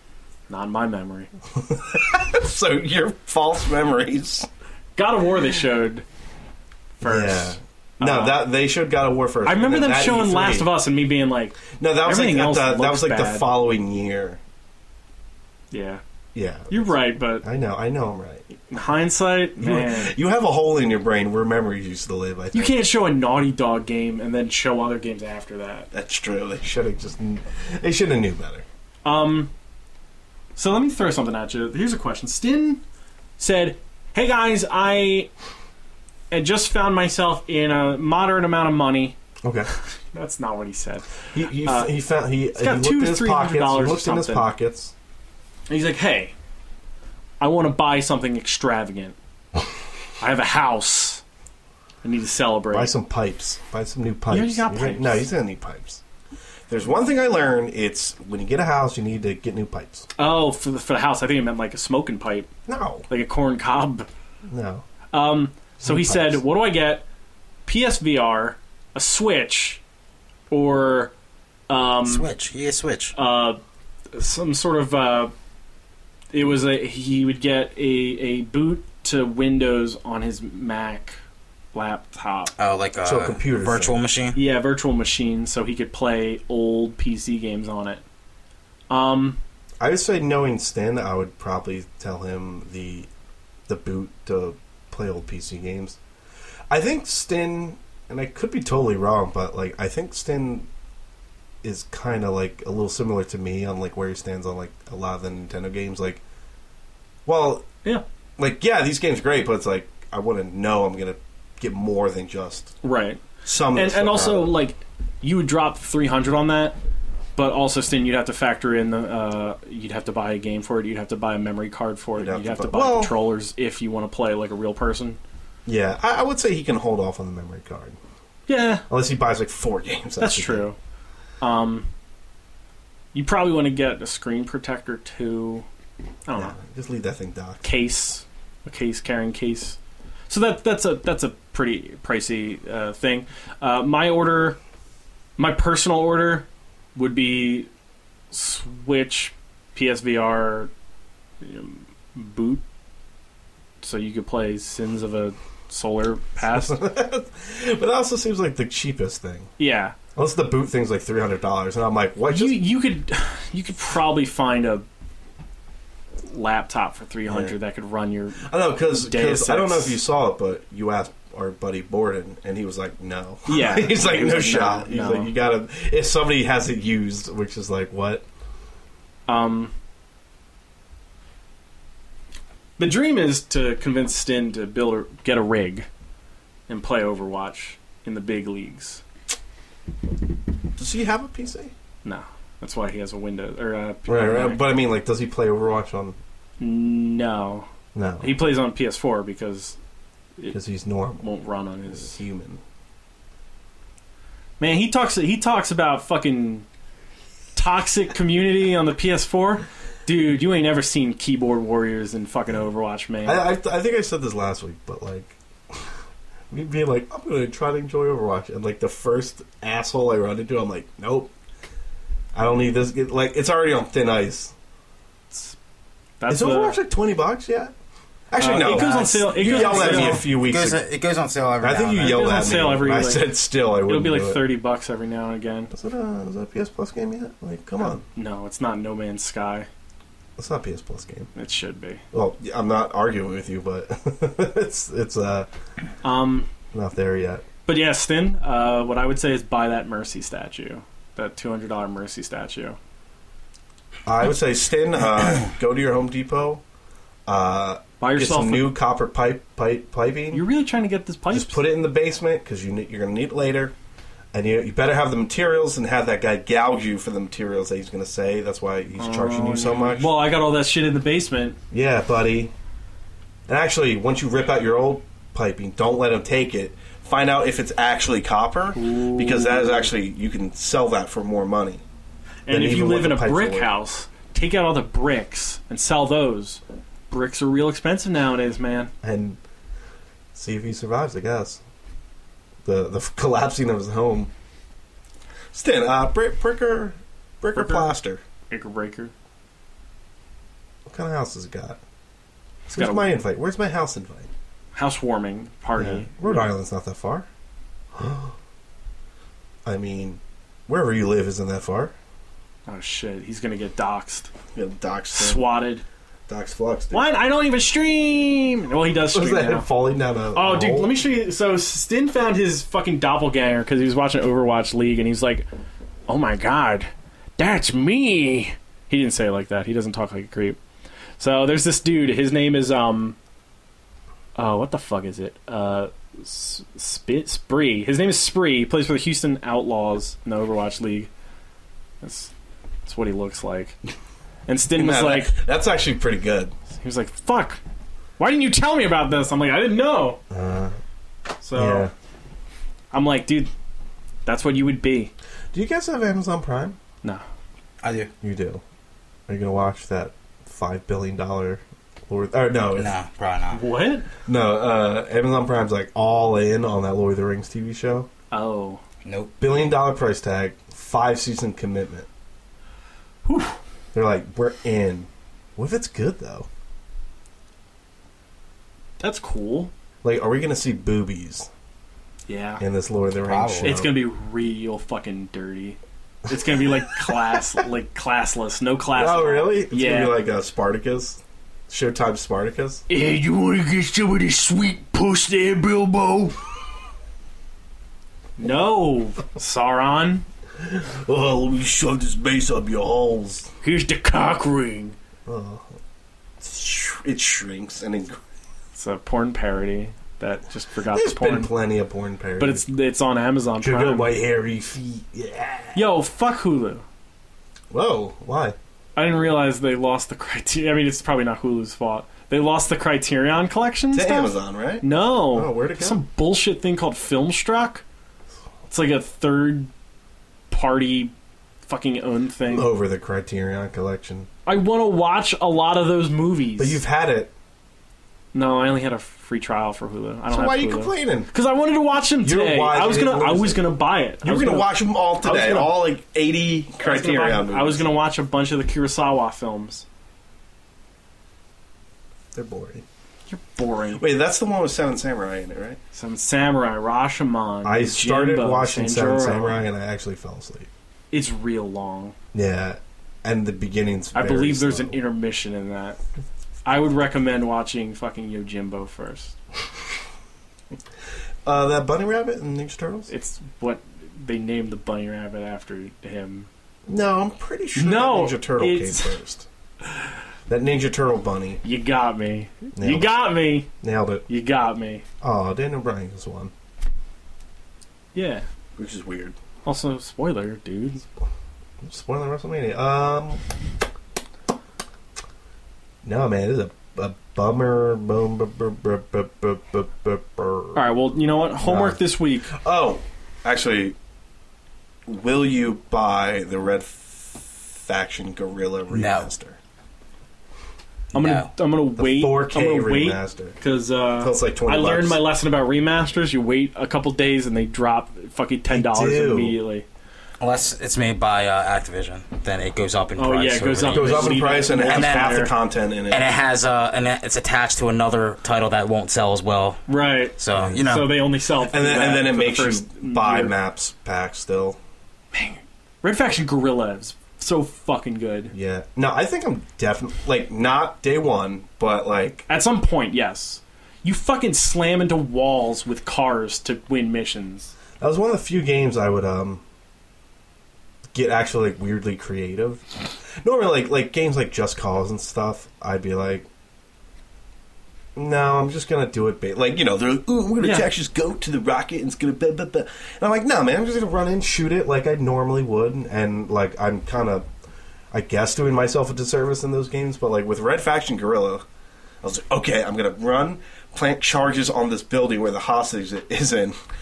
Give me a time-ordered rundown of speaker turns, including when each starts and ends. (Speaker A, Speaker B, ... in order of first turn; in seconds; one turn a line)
Speaker A: 0.5-1.3
Speaker B: 1.5-4.5
Speaker A: 5.0-6.0
Speaker A: 7.0-8.4
Speaker B: 7.0-10.7
Speaker A: 9.4-13.5
Speaker B: 11.7-14.4
Speaker A: 15.7-16.0
Speaker B: 16.3-18.6
Speaker A: 16.7-17.4
Speaker A: 18.7-20.1
Speaker B: 19.6-22.8
Speaker A: 22.5-25.9
Speaker B: 25.9-28.6
Speaker A: 29.0-29.5
Speaker A: 30.6-32.8
Speaker A: 33.4-35.3
Speaker A: 36.3-39.1
Speaker B: 39.4-39.7
Speaker A: 40.1-41.9
Speaker B: 41.3-44.9
Speaker A: 42.5-44.5
Speaker A: 45.7-46.3
Speaker A: 47.4-49.1
Speaker A: 50.2-51.2
Speaker A: 52.0-52.9
Speaker B: 52.7-56.0
Speaker A: 54.3-55.3
Speaker B: 56.7-60.1
Speaker A: 60.2-62.5
Speaker B: 62.7-63.0
Speaker A: 63.1-64.1
Speaker B: 64.5-64.8
Speaker A: 65.1-67.0
Speaker B: 65.8-66.4
Speaker A: 67.7-69.8
Speaker A: 70.5-71.1
Speaker A: 71.7-72.3
Speaker C: 72.0-73.1
Speaker A: 73.1-73.6
Speaker A: 74.1-75.3
Speaker A: 76.3-81.2
Speaker A: 81.7-82.5
Speaker C: 82.6-84.4
Speaker B: 83.0-84.0
Speaker A: 84.3-88.0
Speaker A: 88.9-89.4
Speaker B: 89.8-93.1
Speaker B: 93.7-96.0
Speaker B: 96.7-100.7
Speaker B: 101.6-106.2
Speaker B: 107.2-107.7
Speaker B: 108.4-112.7
Speaker A: 112.8-113.2
Speaker B: 113.4-114.5
Speaker A: 113.7-116.8
Speaker A: 117.3-125.2
Speaker B: 122.2-123.1
Speaker B: 125.7-128.0
Speaker A: 128.5-128.8
Speaker B: 128.9-130.7
Speaker A: 130.2-130.8
Speaker A: 131.4-131.9
Speaker A: 133.1-135.7
Speaker A: 136.3-136.6
Speaker B: 136.3-137.6
Speaker A: 137.6-139.8
Speaker A: 140.3-144.6
Speaker A: 145.4-147.7
Speaker A: 148.3-150.7
Speaker A: 151.4-152.6
Speaker A: 153.8-156.8
Speaker B: 156.4-159.5
Speaker A: 159.6-159.9
Speaker B: 160.2-162.6
Speaker A: 162.3-164.8
Speaker A: 166.2-170.0
Speaker B: 167.3-167.6
Speaker B: 168.4-178.2
Speaker A: 173.5-175.3
Speaker A: 179.3-179.7
Speaker A: 182.8-185.9
Speaker A: 186.7-189.0
Speaker B: 190.8-191.7
Speaker A: 192.0-194.6
Speaker B: 194.1-196.2
Speaker A: 196.6-197.7
Speaker B: 197.9-198.3
Speaker A: 198.2-199.8
Speaker B: 200.5-201.3
Speaker A: 201.2-202.2
Speaker B: 201.9-202.6
Speaker A: 204.6-206.7
Speaker A: 207.6-213.4
Speaker B: 213.2-215.9
Speaker B: 216.5-221.3
Speaker B: 222.3-224.5
Speaker A: 226.2-226.8
Speaker B: 226.3-227.7
Speaker B: 228.3-230.8
Speaker A: 228.4-230.2
Speaker C: 228.6-232.3
Speaker B: 231.6-234.4
Speaker A: 232.0-235.7
Speaker B: 235.7-238.0
Speaker A: 238.0-239.7
Speaker B: 240.4-241.3
Speaker A: 241.3-242.0
Speaker B: 242.1-245.5
Speaker A: 246.0-246.5
Speaker B: 246.7-247.4
Speaker A: 247.7-252.8
Speaker B: 254.1-256.6
Speaker B: 257.3-260.4
Speaker A: 258.0-258.7
Speaker A: 260.3-261.6
Speaker B: 261.3-263.7
Speaker B: 264.3-270.1
Speaker A: 269.0-271.6
Speaker B: 271.7-272.5
Speaker B: 273.5-281.8
Speaker A: 278.7-279.9
Speaker A: 282.5-288.9
Speaker B: 282.5-283.7
Speaker B: 289.0-289.4
Speaker B: 290.3-291.6
Speaker B: 292.6-294.3
Speaker B: 295.5-298.2
Speaker A: 297.5-297.9
Speaker A: 298.5-299.1
Speaker B: 300.9-301.8
Speaker A: 302.7-303.1
Speaker B: 302.7-304.3
Speaker A: 304.7-306.5
Speaker B: 305.8-307.3
Speaker B: 307.9-308.3
Speaker B: 309.6-311.9
Speaker A: 312.7-314.3
Speaker B: 314.5-315.4
Speaker A: 315.1-315.8
Speaker B: 316.3-317.1
Speaker A: 316.9-319.7
Speaker B: 319.1-320.9
Speaker A: 320.3-325.5
Speaker A: 326.1-330.6
Speaker A: 331.2-333.1
Speaker A: 334.4-341.1
Speaker A: 342.0-342.3
Speaker A: 342.9-343.8
Speaker A: 344.5-345.3
Speaker B: 344.7-346.5
Speaker A: 346.7-347.6
Speaker A: 348.2-350.2
Speaker B: 350.3-350.8
Speaker A: 351.4-351.9
Speaker B: 351.5-351.9
Speaker A: 352.9-353.5
Speaker A: 354.2-355.1
Speaker B: 355.5-356.8
Speaker C: 357.8-358.1
Speaker B: 358.2-358.6
Speaker B: 359.3-362.9
Speaker C: 362.8-363.6
Speaker A: 363.5-364.1
Speaker B: 364.2-368.1
Speaker A: 368.3-368.8
Speaker C: 369.0-369.3
Speaker B: 369.4-372.1
Speaker A: 373.2-373.6
Speaker B: 373.9-376.5
Speaker A: 379.0-379.7
Speaker B: 380.0-381.5
Speaker A: 382.3-382.6
Speaker B: 382.6-383.9
Speaker C: 383.2-383.8
Speaker A: 383.6-390.1
Speaker B: 386.3-387.6
Speaker B: 388.9-392.8
Speaker A: 392.9-396.4
Speaker A: 398.4-400.2
Speaker B: 400.6-403.5
Speaker A: 403.6-404.9
Speaker B: 405.2-405.7
Speaker B: 406.4-408.2
Speaker A: 408.8-411.5
Speaker B: 410.9-412.6
Speaker A: 412.4-414.1
Speaker B: 413.6-415.9
Speaker A: 415.7-416.8
Speaker B: 417.7-418.6
Speaker A: 418.9-427.8
Speaker B: 423.9-426.0
Speaker A: 428.7-429.7
Speaker A: 430.5-431.1
Speaker A: 431.6-432.7
Speaker B: 432.4-434.3
Speaker A: 434.4-436.8
Speaker B: 436.6-437.3
Speaker A: 438.3-445.8
Speaker B: 440.3-441.3
Speaker B: 442.2-443.6
Speaker B: 444.2-447.9
Speaker A: 446.8-449.8
Speaker B: 452.3-452.8
Speaker A: 453.3-454.0
Speaker B: 453.9-455.8
Speaker A: 455.9-459.6
Speaker B: 457.6-460.7
Speaker A: 461.1-462.1
Speaker B: 462.3-465.0
Speaker A: 464.1-466.0
Speaker A: 466.6-469.4
Speaker B: 471.4-473.1
Speaker A: 473.1-476.5
Speaker B: 476.9-479.5
Speaker A: 477.7-479.1
Speaker B: 480.5-481.6
Speaker A: 481.6-483.7
Speaker B: 482.7-483.2
Speaker B: 483.8-484.2
Speaker A: 484.3-485.0
Speaker B: 485.2-486.5
Speaker A: 488.1-488.4
Speaker B: 488.8-489.4
Speaker A: 489.6-491.1
Speaker B: 491.8-493.4
Speaker B: 496.0-500.9
Speaker A: 500.7-502.6
Speaker B: 501.6-503.9
Speaker B: 505.1-509.6
Speaker C: 508.9-509.3
Speaker A: 511.1-519.9
Speaker C: 511.1-511.5
Speaker B: 512.0-513.6
Speaker B: 514.2-515.2
Speaker B: 518.7-519.6
Speaker C: 520.4-525.5
Speaker A: 523.2-525.5
Speaker B: 523.9-526.3
Speaker C: 526.1-529.8
Speaker A: 529.9-533.5
Speaker C: 530.4-531.1
Speaker B: 530.5-530.8
Speaker B: 531.6-534.8
Speaker A: 535.3-538.5
Speaker B: 538.5-542.5
Speaker A: 542.5-547.7
Speaker B: 548.0-549.6
Speaker B: 551.1-556.5
Speaker B: 558.1-567.5
Speaker A: 560.6-560.9
Speaker B: 568.1-571.6
Speaker B: 572.2-576.8